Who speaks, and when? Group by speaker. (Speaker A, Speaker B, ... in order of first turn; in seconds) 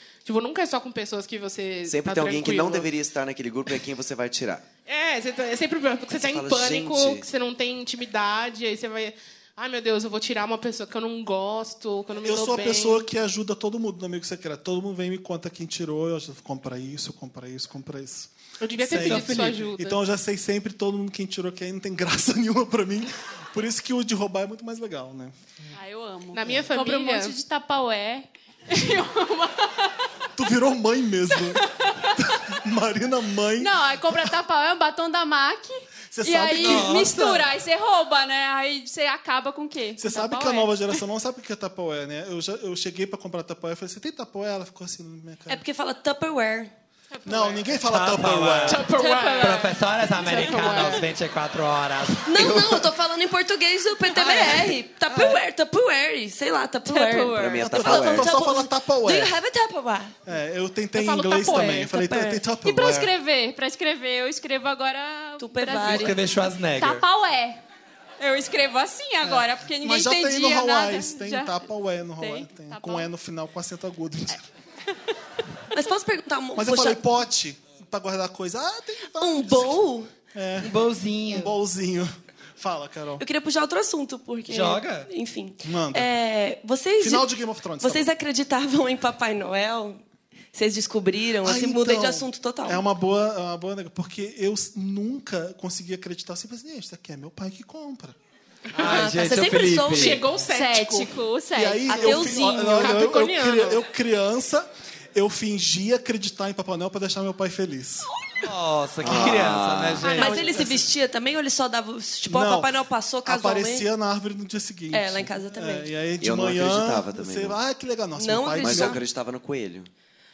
Speaker A: 0.2-2.9, 4.9-13.1, 18.6-20.0, 26.3-27.4, 47.2-47.8, 48.7-51.1, 61.0-62.2, 99.9-101.1, 102.7-103.8, 110.1-110.7
Speaker B: 1.9-4.7, 6.1-7.3, 57.3-58.3, 109.0-110.1, 116.2-117.6, 118.6-119.9
Speaker C: 12.2-25.4, 30.4-31.6, 32.6-34.3, 36.1-37.0, 40.0-45.6, 47.3-48.8, 57.6-59.4, 60.3-63.1, 69.2-74.4, 76.6-79.8, 80.3-80.8, 81.3-83.2, 85.6-86.1, 87.0-88.1, 91.4-98.2, 101.5-108.1, 112.3-112.7, 113.2-119.0
Speaker D: 18.9-19.6, 36.6-37.5, 47.9-52.7, 65.8-67.0, 80.6-81.5, 84.5-85.1, 98.8-100.3, 108.4-110.8
Speaker E: 25.8-29.7, 33.6-40.9, 49.0-49.7, 50.4-50.9, 56.9-57.6, 62.6-66.2, 66.8-67.6, 68.2-71.6, 72.2-73.1, 100.5-102.7
Speaker F: 45.5-46.7, 52.3-60.1, 65.4-66.2, 75.7-77.0, 79.2-80.1, 83.2-87.3, 87.8-90.0, 90.5-92.8, 98.8-100.2, 101.9-102.9, 110.1-113.9, 114.9-115.9, 118.2-119.0